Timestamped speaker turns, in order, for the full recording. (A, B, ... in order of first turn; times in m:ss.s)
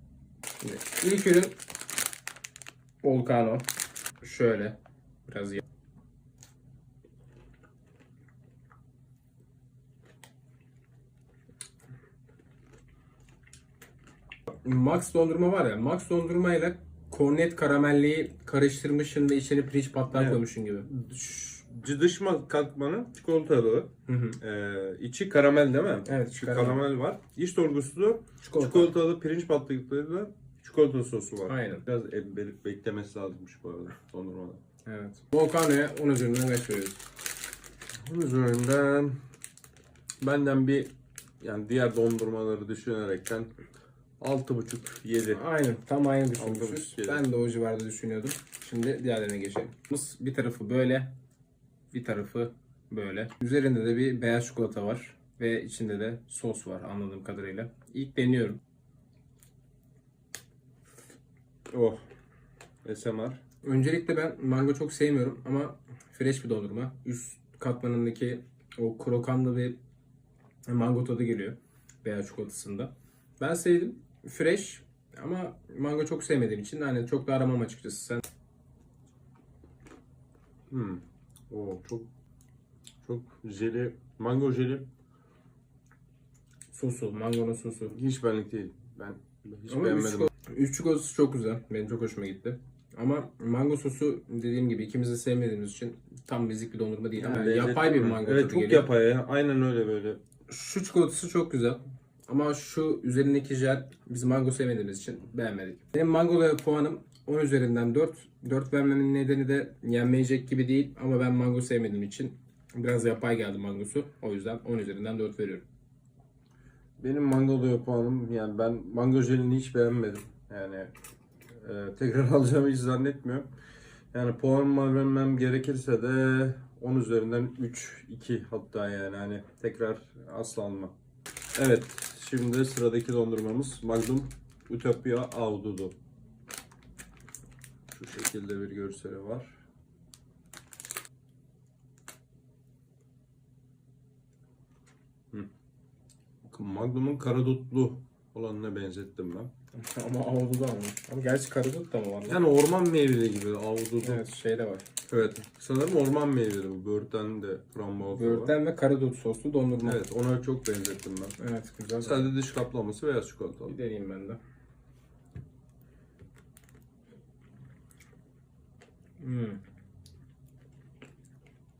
0:00.6-0:01.5 A
0:03.0-0:03.7 A
0:04.2-0:05.6 A
0:14.5-0:20.9 A
0:20.1-0:23.9 B
0:24.1-0:24.4 A
0:24.4-0:34.6 B
0:26.0-0:26.8 A
0:28.4-0:28.9 A
0:31.5-0:31.8 A
0:34.8-0:37.0 A
0:38.0-0:39.2 B
0:40.2-0:43.5 B
0:44.2-0:45.4 B
0:45.3-0:51.1 A
0:46.4-0:47.2 B
0:51.9-0:58.6 A
1:01.7-1:02.0 B
1:02.8-1:03.4 B
1:03.6-1:09.8 A
1:10.7-1:18.2 A
1:20.7-1:22.1 B
1:23.0-1:24.9 B
1:26.7-1:28.0 A
1:27.9-1:30.3 B
1:29.7-1:38.9 A
1:37.2-1:40.2 B
1:40.5-1:55.6 A
1:57.0-2:00.9 B
2:01.6-2:03.5 B
2:04.1-2:10.9 B
2:11.5-2:15.9 B
2:17.9-2:19.6 B
2:26.4-2:29.5 B
2:29.7-2:32.4 A
2:32.3-2:34.2 B
2:34.0-2:34.8 A
2:35.1-2:38.5 B
2:38.0-2:40.0 A
2:39.8-2:41.4 B
2:41.4-2:42.3 A
2:42.0-2:43.8 B
2:43.7-2:44.4 A
2:49.2-2:49.6 A